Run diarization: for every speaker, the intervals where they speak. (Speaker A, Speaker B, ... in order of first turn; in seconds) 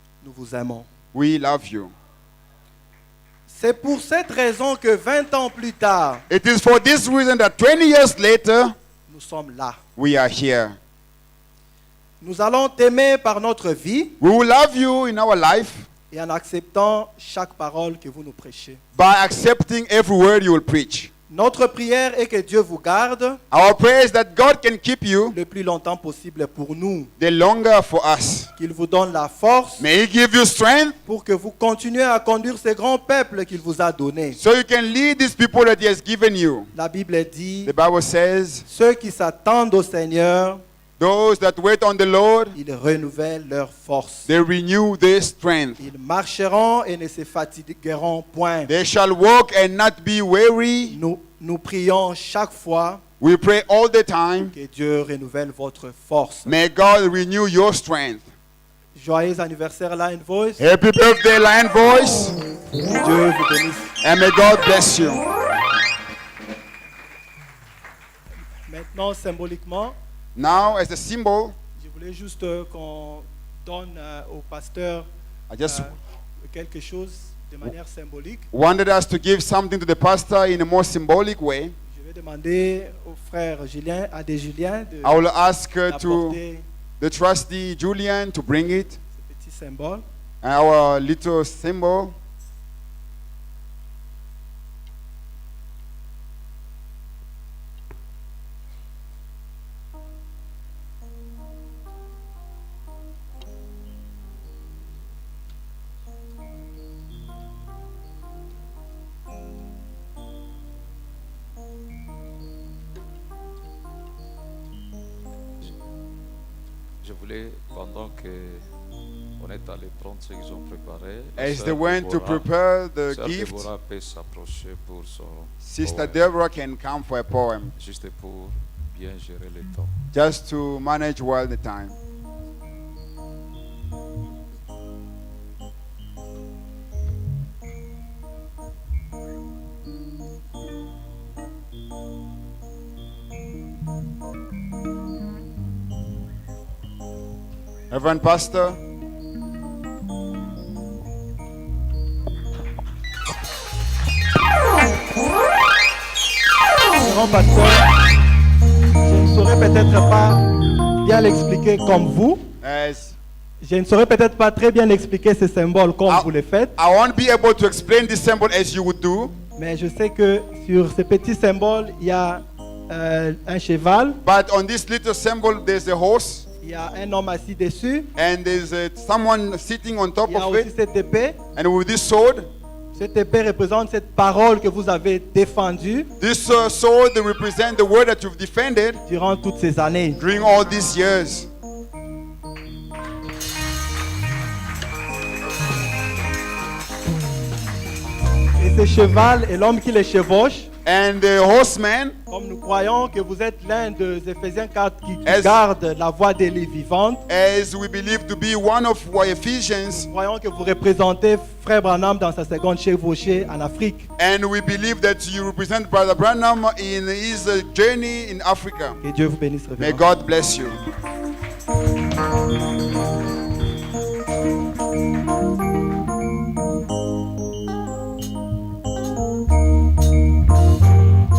Speaker A: 0.2-0.9, 3.5-6.2, 9.1-9.8, 12.2-14.2, 16.1-18.8, 21.3-23.4, 25.3-27.1, 28.6-29.9, 31.1-34.4, 36.7-37.7, 38.7-40.6, 42.5-44.3, 45.8-48.7, 50.9-53.0, 54.5-56.5, 59.0-60.6, 62.9-63.9, 68.7-70.0, 71.8-75.1, 75.7-76.0, 76.5-78.5, 81.9-85.2, 85.9-86.7, 89.2-90.0, 157.0-157.9, 159.0-160.5, 161.0-162.4, 163.6-166.7, 169.6-174.2, 176.6-178.1, 180.3-181.4, 182.9-186.1, 189.1-190.2, 198.6-200.7, 202.3-207.2, 209.9-214.1, 219.0-220.0
Speaker B: 1.1-1.9, 6.3-8.7, 10.0-10.8, 14.2-15.9, 19.0-21.1, 23.5-25.4, 27.2-28.5, 29.8-31.0, 34.4-36.7, 37.7-38.7, 41.0-42.6, 44.3-45.8, 48.7-51.0, 53.2-54.5, 56.5-58.3, 60.6-62.4, 64.0-65.2, 70.4-71.5, 75.5-75.9, 78.5-81.8, 85.0-86.4, 87.0-89.0, 90.4-92.2, 121.4-123.7, 125.6-127.7, 130.1-131.9, 147.9-148.8, 162.6-163.2, 166.1-169.3, 174.2-176.4, 178.2-180.7, 181.6-182.5, 186.2-189.0, 190.2-191.5, 200.8-202.2, 205.3-205.6, 207.3-210.1, 214.2-219.0, 219.8-220.8
Speaker C: 117.0-118.7, 119.4-122.5, 123.1-126.2, 127.8-130.0